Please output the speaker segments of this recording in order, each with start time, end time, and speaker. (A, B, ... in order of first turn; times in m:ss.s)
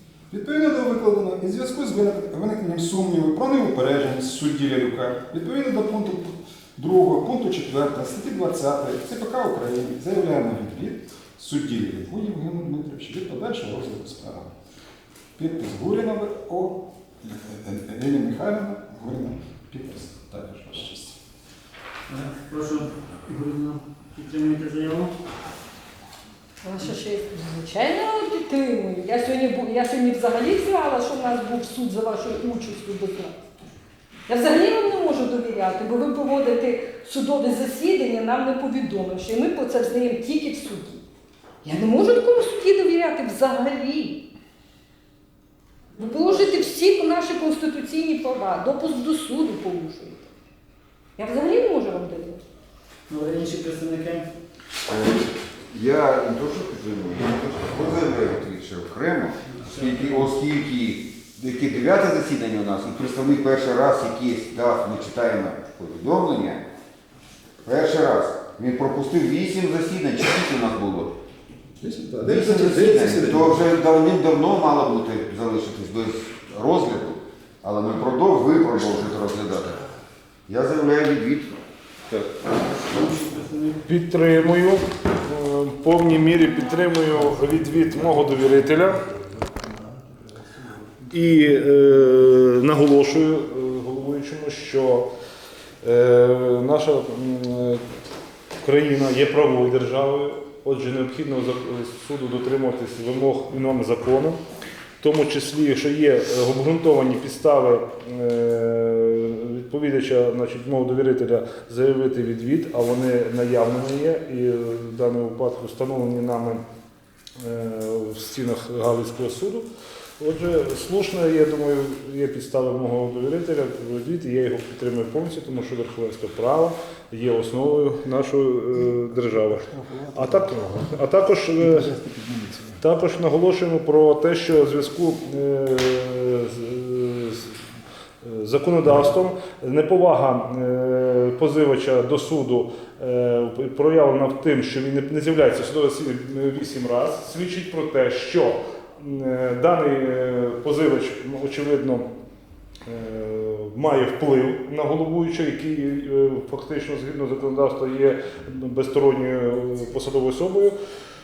0:00.3-0:14.5 A
0:15.4-0:21.1 A
0:22.1-0:25.1 B
0:26.6-0:33.4 C
0:34.3-0:41.0 C
0:41.6-0:44.2 C
0:46.0-0:50.2 C
0:46.0-0:46.7 B
0:51.2-0:52.4 C
0:53.1-0:54.3 B
0:54.9-1:06.6 D
0:59.4-1:00.3 B
1:07.6-1:11.1 D
1:11.8-1:13.7 A
1:12.2-1:19.8 D
1:20.5-1:22.3 D
1:22.5-1:23.8 B
1:23.8-1:29.0 E
1:31.1-1:35.1 E
1:35.8-1:37.8 E
1:38.6-1:44.4 E
1:45.0-1:56.6 E
1:57.4-1:59.6 E
2:00.2-2:11.9 E
2:09.4-2:10.9 A
2:11.6-2:12.8 A
2:12.8-2:17.6 E
2:18.2-2:32.0 E
2:32.8-2:40.7 E